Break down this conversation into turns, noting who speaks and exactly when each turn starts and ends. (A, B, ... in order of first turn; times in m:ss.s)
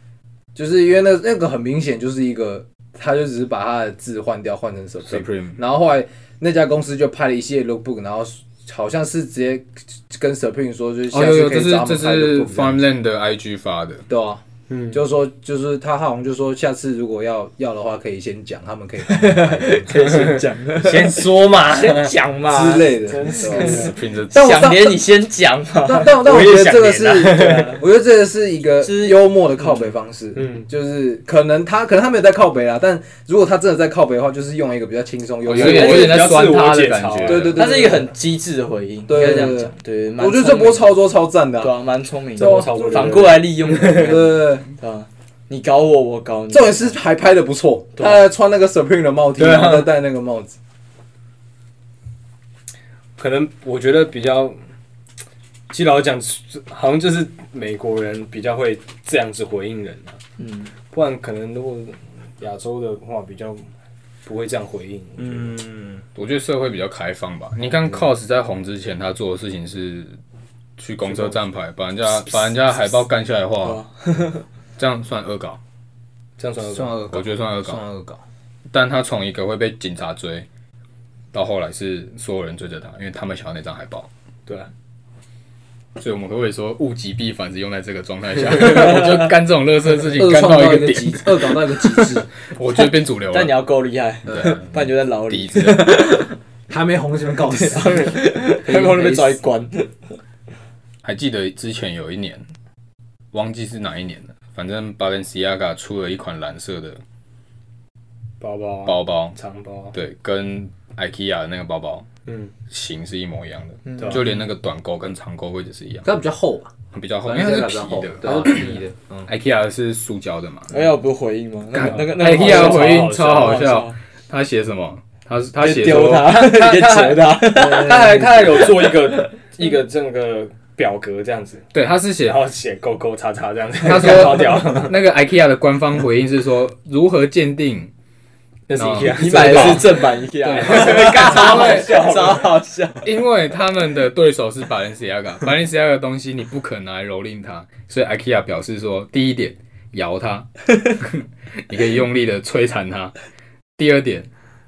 0:00.6-0:12.8 A
0:05.1-0:05.6 B
0:11.1-0:14.1 B
0:14.1-0:20.2 A
0:14.7-0:15.0 C
0:19.1-0:26.3 D
0:20.0-0:22.1 C
0:22.5-0:25.0 A
0:23.1-0:24.0 C
0:23.6-0:24.6 B
0:25.8-0:36.3 A
0:26.2-0:27.8 C
0:28.8-0:29.2 D
0:30.4-0:30.7 C
0:35.4-0:37.6 B
0:35.5-0:37.6 C
0:35.6-0:36.2 D
0:37.2-0:38.1 A
0:37.6-0:40.9 D
0:39.1-0:41.7 A
0:41.6-0:46.9 D
0:42.4-0:44.7 A
0:42.4-0:44.2 C
0:46.5-0:50.6 A
0:49.4-0:49.9 C
0:53.2-0:54.6 C
0:55.7-1:00.2 C
1:00.4-1:00.7 D
1:00.9-1:03.7 C
1:04.3-1:05.6 C
1:05.2-1:06.0 A
1:06.2-1:10.2 B
1:10.8-1:13.9 B
1:11.0-1:11.4 C
1:13.6-1:14.4 D
1:14.8-1:15.6 B
1:16.4-1:17.0 C
1:16.7-1:18.2 A
1:17.1-1:17.8 B
1:18.7-1:20.5 B
1:21.3-1:24.1 B
1:26.0-1:33.6 B
1:28.7-1:29.2 D
1:30.2-1:32.3 A
1:32.8-1:36.4 D
1:34.3-1:36.1 B
1:34.3-1:34.6 A
1:36.7-1:39.4 A
1:37.4-1:40.2 D
1:41.0-1:42.5 B
1:43.3-1:47.0 B
1:48.4-1:50.0 C
1:48.8-1:49.4 B
1:49.9-1:52.1 B
1:52.3-1:52.5 C
1:52.7-1:56.1 B
1:54.0-1:54.3 C
1:56.0-1:59.3 A
1:56.9-2:00.8 B
1:58.2-1:58.8 C
2:00.7-2:04.0 D
2:01.7-2:06.4 B
2:01.8-2:03.7 C
2:05.6-2:09.3 D
2:06.1-2:11.7 C
2:07.5-2:08.7 A
2:11.7-2:12.4 B
2:12.2-2:15.0 C
2:13.8-2:17.9 B
2:18.7-2:20.0 C
2:18.7-2:22.4 B
2:19.0-2:23.1 D
2:20.6-2:22.4 C
2:23.0-2:33.2 B
2:33.8-2:34.3 B